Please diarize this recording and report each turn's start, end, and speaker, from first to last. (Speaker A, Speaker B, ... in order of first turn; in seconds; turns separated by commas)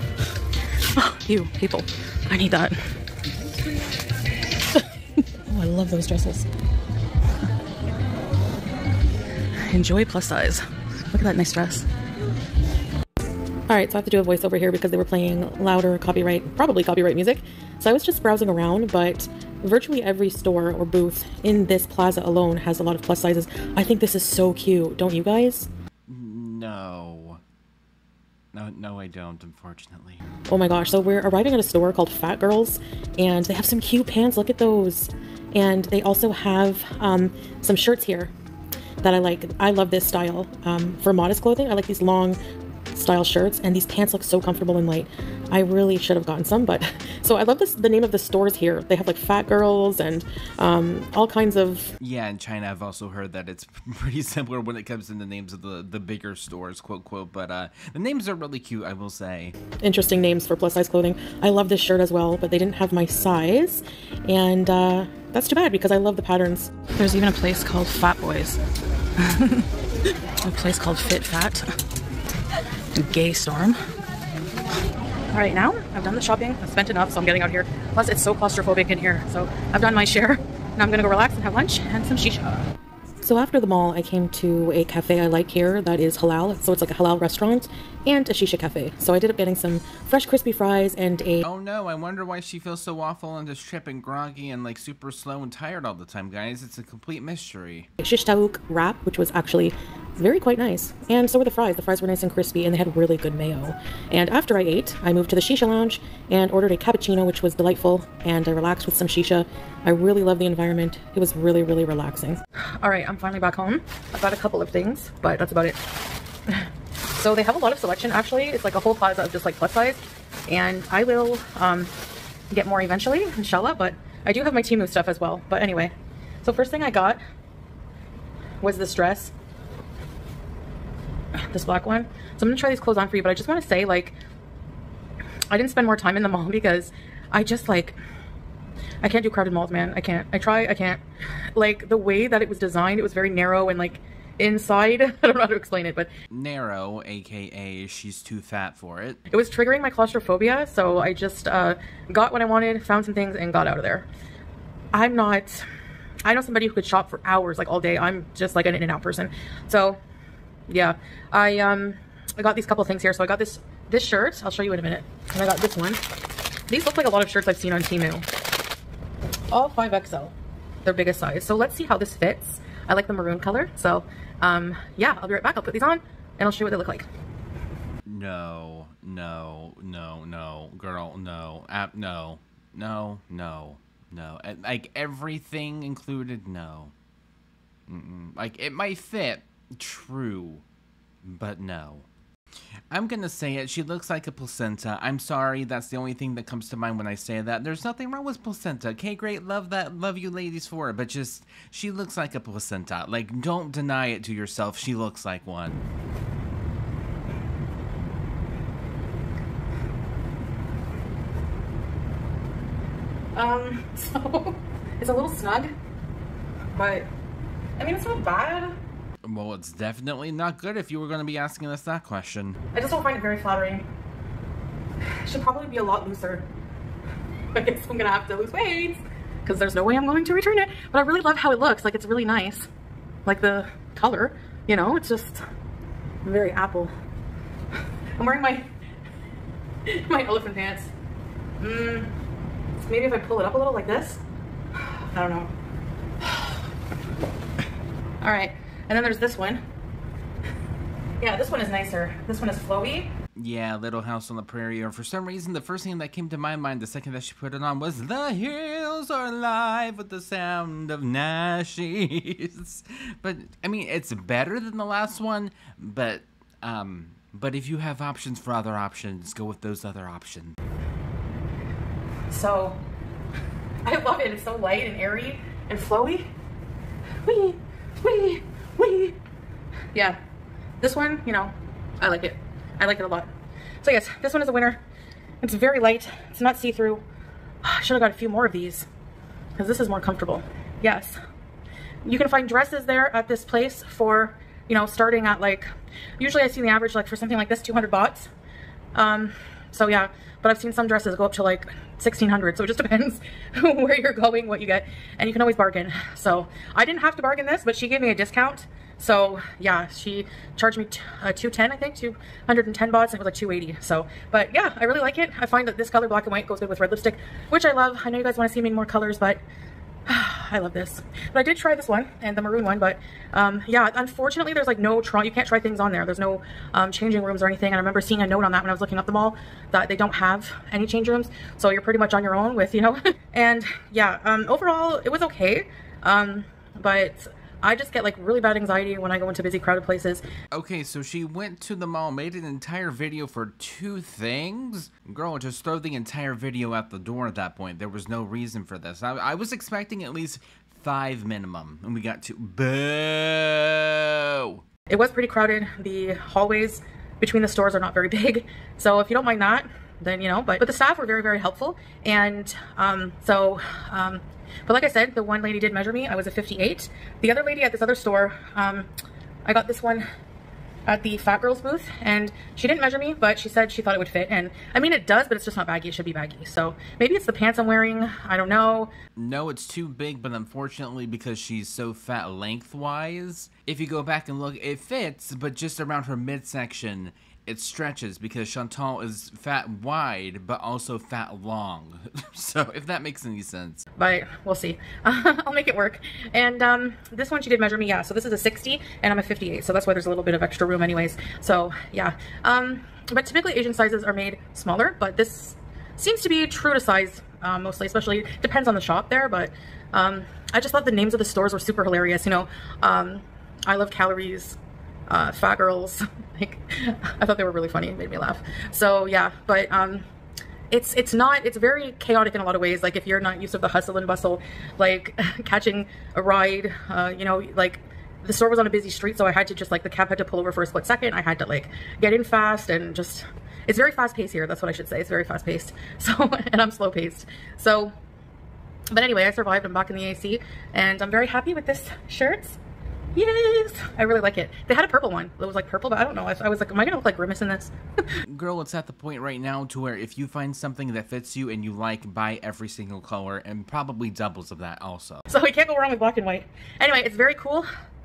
Speaker A: 0.9-2.8, Speaker A: 5.3-6.5, Speaker A: 9.6-11.9, Speaker A: 13.7-25.7, Speaker B: 26.1-27.4, Speaker B: 28.5-30.2, Speaker A: 30.5-38.3, Speaker A: 39.0-42.4, Speaker A: 42.9-51.9, Speaker B: 52.0-59.5, Speaker A: 59.8-68.6, Speaker A: 69.2-69.7, Speaker A: 70.4-71.7, Speaker A: 72.9-73.8, Speaker A: 75.3-82.6, Speaker A: 83.2-91.4, Speaker B: 91.4-97.9, Speaker A: 98.0-115.8, Speaker A: 117.1-121.9, Speaker A: 122.5-127.2, Speaker A: 128.6-129.3, Speaker A: 131.3-134.2, Speaker A: 135.5-138.0, Speaker A: 139.0-141.0, Speaker A: 141.5-146.1, Speaker B: 146.3-149.2, Speaker A: 149.3-154.1, Speaker A: 154.9-155.6, Speaker A: 156.2-160.0, Speaker A: 160.7-166.0, Speaker A: 166.7-168.2, Speaker A: 169.5-177.0, Speaker B: 178.1-186.9, Speaker B: 187.9-190.6, Speaker B: 191.2-192.1, Speaker B: 192.9-205.8, Speaker A: 213.3-215.7, Speaker A: 216.7-217.1, Speaker A: 217.8-218.8, Speaker B: 219.2-222.6, Speaker A: 222.7-223.8, Speaker A: 225.2-226.4, Speaker A: 227.5-232.7, Speaker A: 233.2-235.4, Speaker A: 236.2-236.9, Speaker A: 238.2-238.7, Speaker A: 239.9-240.9, Speaker A: 241.6-242.1, Speaker A: 242.8-244.2, Speaker A: 245.1-245.5, Speaker A: 246.2-246.6, Speaker A: 248.2-249.6, Speaker A: 251.2-253.1, Speaker B: 253.4-270.6, Speaker A: 272.3-272.8, Speaker A: 273.9-276.3, Speaker A: 277.2-279.2, Speaker A: 280.8-283.3, Speaker A: 283.8-284.8, Speaker A: 285.4-287.0, Speaker A: 287.6-288.9, Speaker A: 289.6-291.2, Speaker A: 292.0-295.6, Speaker A: 296.2-298.3, Speaker A: 298.9-319.4, Speaker A: 320.1-340.2, Speaker B: 340.5-354.6, Speaker A: 354.9-368.9, Speaker A: 369.4-370.1, Speaker A: 370.9-378.9, Speaker B: 379.1-393.8, Speaker A: 394.0-420.0, Speaker A: 420.7-437.9, Speaker A: 438.9-442.6, Speaker A: 443.1-447.7, Speaker B: 448.3-455.2, Speaker A: 455.3-457.7